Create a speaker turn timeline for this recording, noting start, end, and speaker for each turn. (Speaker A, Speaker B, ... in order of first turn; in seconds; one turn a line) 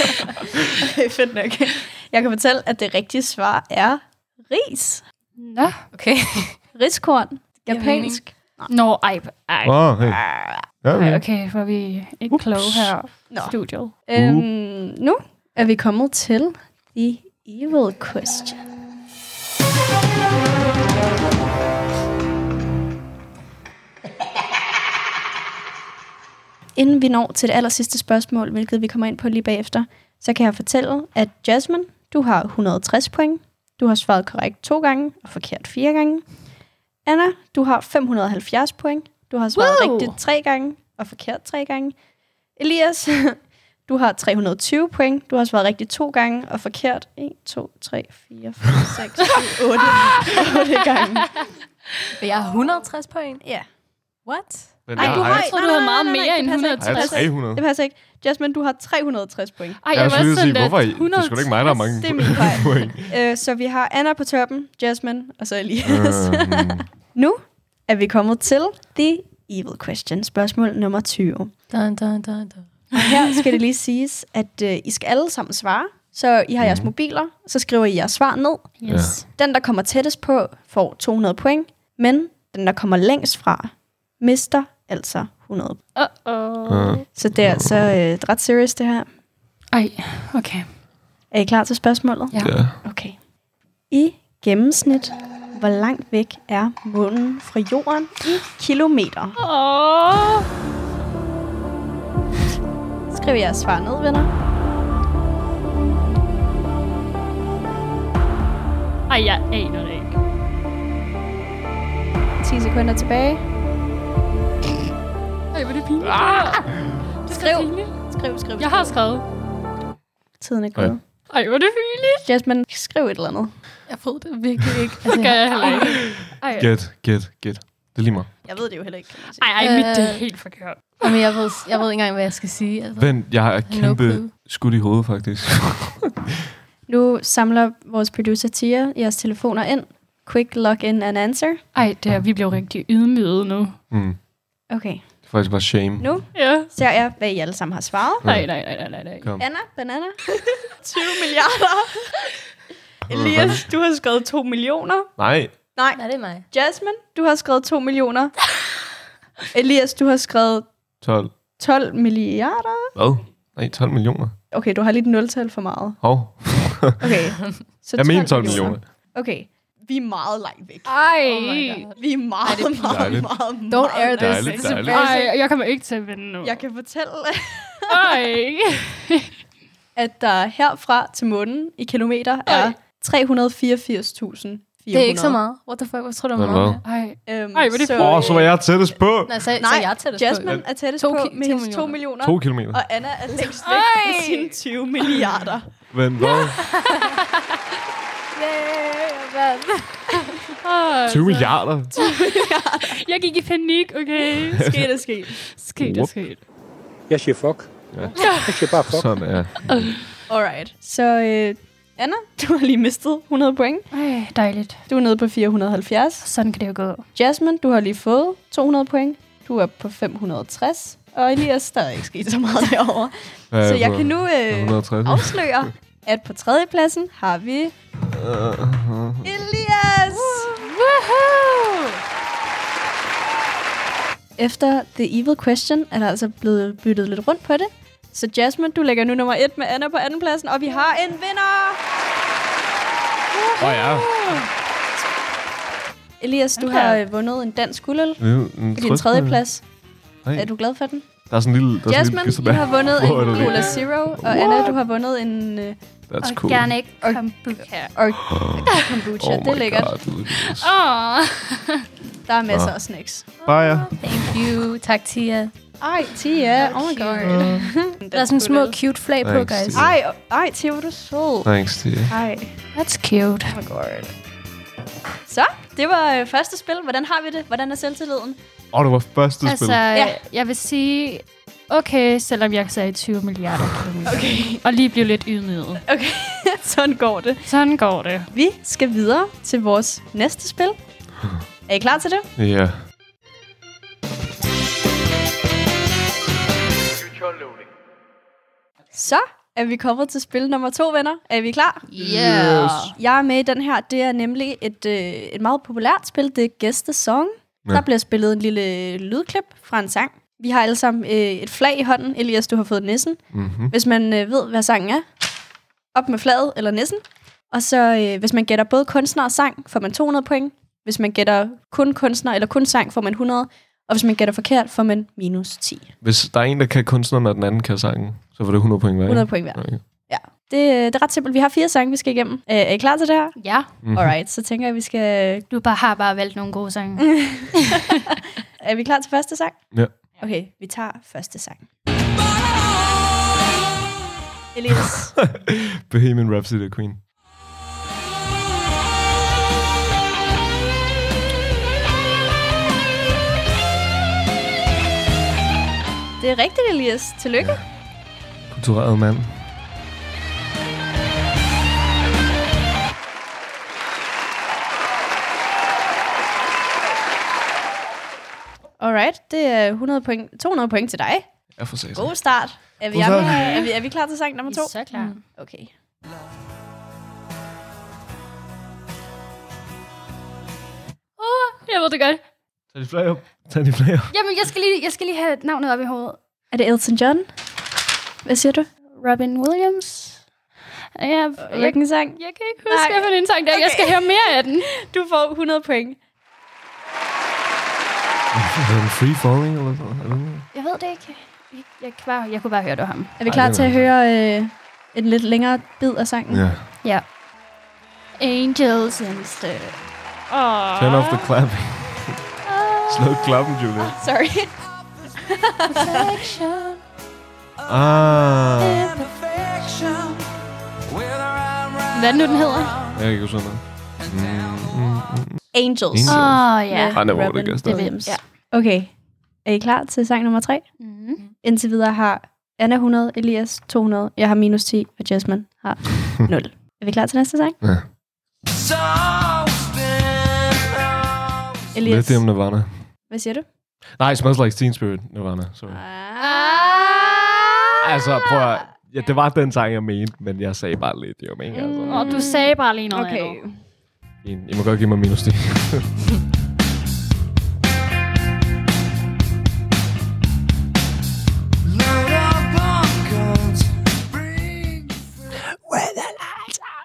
Speaker A: 0.8-5.0
Speaker B: 5.3-5.8
Speaker C: 5.9-6.6
Speaker A: 6.7-8.7
Speaker C: 7.7-8.2
Speaker B: 8.7-9.9
Speaker D: 9.6-11.2
Speaker A: 10.1-10.7
Speaker B: 10.9-13.9
Speaker D: 12.3-12.9
Speaker A: 13.2-18.6
Speaker D: 14.1-14.5
Speaker A: 26.8-36.3
Speaker A: 37.0-42.0
Speaker B: 39.5-40.2
Speaker A: 42.5-51.4
Speaker C: 52.2-53.4
Speaker C: 54.2-54.8
Speaker D: 54.9-55.6
Speaker A: 54.9-59.8
Speaker B: 55.0-57.3
Speaker D: 56.8-57.6
Speaker B: 59.8-62.7
Speaker D: 59.9-63.1
Speaker A: 61.9-71.5
Speaker D: 65.8-66.9
Speaker C: 71.7-73.0
Speaker A: 72.9-85.8
Speaker D: 76.6-76.9
Speaker B: 78.8-79.2
Speaker D: 78.9-79.2
Speaker B: 85.9-87.0
Speaker D: 86.7-87.8
Speaker A: 87.1-89.1
Speaker B: 89.7-90.7
Speaker A: 91.3-93.2
Speaker D: 92.4-92.8
Speaker A: 93.9-99.4
Speaker B: 99.4-100.5
Speaker A: 103.1-104.3
Speaker B: 109.1-110.2
Speaker A: 112.4-113.4
Speaker B: 115.5-117.9
Speaker D: 116.0-116.9
Speaker A: 117.3-119.0
Speaker B: 118.6-119.2
Speaker A: 120.4-121.0
Speaker B: 121.3-122.2
Speaker A: 122.2-123.5
Speaker C: 123.9-126.0
Speaker B: 125.0-126.7
Speaker D: 126.2-128.3
Speaker A: 128.4-129.5
Speaker B: 129.4-131.2
Speaker C: 129.6-130.3
Speaker C: 131.0-134.3
Speaker D: 132.9-136.2
Speaker A: 136.9-141.6
Speaker B: 141.7-143.8
Speaker D: 143.9-144.2
Speaker A: 144.7-145.1
Speaker D: 145.2-146.1
Speaker A: 146.0-148.2
Speaker B: 146.3-146.7
Speaker D: 148.2-148.6
Speaker B: 148.2-149.3
Speaker A: 149.4-150.2
Speaker A: 150.8-152.2
Speaker A: 153.1-155.1
Speaker D: 153.1-153.6
Speaker D: 155.2-155.5
Speaker A: 155.7-158.3
Speaker C: 155.9-156.4
Speaker A: 159.5-160.7
Speaker D: 161.0-161.3
Speaker A: 161.6-162.9
Speaker D: 162.9-164.3
Speaker A: 164.5-166.0
Speaker D: 166.0-167.2
Speaker A: 167.0-170.9
Speaker D: 167.9-168.8
Speaker B: 170.9-171.9
Speaker C: 171.2-175.1
Speaker A: 171.9-175.3
Speaker D: 172.8-173.3
Speaker D: 174.2-175.1
Speaker B: 174.9-176.6
Speaker A: 176.4-178.1
Speaker B: 177.9-179.3
Speaker A: 179.9-185.4
Speaker B: 182.5-182.7
Speaker C: 184.9-186.8
Speaker D: 186.3-186.8
Speaker B: 186.8-188.5
Speaker A: 187.2-188.5
Speaker D: 187.9-189.4
Speaker C: 189.2-192.0
Speaker A: 189.6-195.7
Speaker D: 192.2-192.8
Speaker B: 193.6-194.5
Speaker D: 195.9-196.7
Speaker B: 196.2-197.1
Speaker A: 198.4-199.3
Speaker C: 199.2-200.3
Speaker B: 200.6-202.0
Speaker D: 201.1-201.9
Speaker A: 201.9-203.0
Speaker B: 202.9-204.8
Speaker A: 204.6-205.4
Speaker B: 205.3-206.4
Speaker D: 205.8-206.1
Speaker E: 207.1-209.1
Speaker D: 207.9-208.3
Speaker B: 208.2-208.5
Speaker D: 208.8-209.9
Speaker A: 210.3-213.9
Speaker B: 213.9-214.8
Speaker A: 214.9-216.2
Speaker B: 216.2-217.0
Speaker A: 217.1-227.7
Speaker D: 223.5-225.7
Speaker D: 228.0-229.4
Speaker A: 229.2-230.6
Speaker B: 230.1-232.0
Speaker A: 234.4-241.8
Speaker B: 243.3-244.5
Speaker D: 243.6-244.4
Speaker A: 246.2-249.7
Speaker B: 246.6-247.0
Speaker D: 248.2-249.5
Speaker D: 250.2-250.5
Speaker A: 250.3-251.1
Speaker D: 251.2-254.7
Speaker A: 251.8-255.8
Speaker B: 253.4-253.6
Speaker D: 256.1-256.8
Speaker B: 256.2-257.9
Speaker A: 257.0-260.0
Speaker D: 258.2-260.7
Speaker B: 260.3-261.9
Speaker A: 262.3-263.4
Speaker D: 262.5-262.7
Speaker D: 263.4-264.2
Speaker C: 263.9-265.5
Speaker A: 265.8-268.8
Speaker C: 266.6-269.8
Speaker D: 267.2-267.7
Speaker D: 269.2-269.9
Speaker A: 269.7-271.5
Speaker D: 271.4-272.1
Speaker A: 272.0-272.6
Speaker B: 272.7-273.6
Speaker A: 273.5-274.1
Speaker A: 275.3-278.4
Speaker D: 278.7-279.8
Speaker B: 279.4-285.8
Speaker A: 279.9-280.2
Speaker A: 284.1-284.6
Speaker A: 285.9-287.5
Speaker B: 287.4-288.3
Speaker A: 288.3-290.8
Speaker A: 291.7-292.3
Speaker D: 292.4-292.8
Speaker A: 298.9-301.9
Speaker B: 301.9-302.9
Speaker D: 302.0-302.9
Speaker A: 302.9-315.1
Speaker D: 313.3-313.7
Speaker A: 315.9-325.9
Speaker D: 326.0-329.8
Speaker A: 329.1-335.4
Speaker B: 333.4-333.7
Speaker D: 333.8-334.1
Speaker B: 335.5-337.6
Speaker A: 338.6-341.6
Speaker A: 344.5-345.1
Speaker D: 345.2-347.0
Speaker A: 356.2-357.6
Speaker D: 357.4-357.7
Speaker D: 358.5-359.5
Speaker A: 368.8-371.3
Speaker D: 371.6-372.2
Speaker A: 371.9-375.7
Speaker D: 372.9-373.6
Speaker B: 373.1-373.7
Speaker B: 374.5-375.2
Speaker B: 381.2-382.2
Speaker D: 382.7-384.1
Speaker B: 384.1-386.2
Speaker A: 386.5-387.3
Speaker A: 388.2-388.7
Speaker B: 388.9-390.2
Speaker B: 390.9-394.7
Speaker A: 391.4-396.0
Speaker D: 398.3-400.5
Speaker B: 400.5-403.1
Speaker A: 403.2-406.4
Speaker D: 403.3-403.9
Speaker D: 406.3-406.7
Speaker B: 408.2-409.4
Speaker A: 409.4-409.7
Speaker B: 410.3-411.3
Speaker D: 410.8-414.0
Speaker B: 412.4-413.1
Speaker A: 413.9-416.1
Speaker B: 415.7-416.8
Speaker D: 417.6-419.0
Speaker B: 418.6-420.2
Speaker B: 421.9-422.9
Speaker D: 422.9-428.0
Speaker A: 425.5-430.7
Speaker B: 426.1-427.0
Speaker B: 427.6-428.2
Speaker B: 430.8-431.2
Speaker A: 431.4-437.6
Speaker D: 437.6-437.9
Speaker A: 441.7-442.3
Speaker D: 441.8-442.9
Speaker A: 443.1-443.4
Speaker D: 443.9-445.8
Speaker A: 445.7-447.6
Speaker B: 446.2-447.8
Speaker D: 447.8-452.2
Speaker A: 451.5-453.6
Speaker B: 451.9-453.4
Speaker D: 454.2-455.9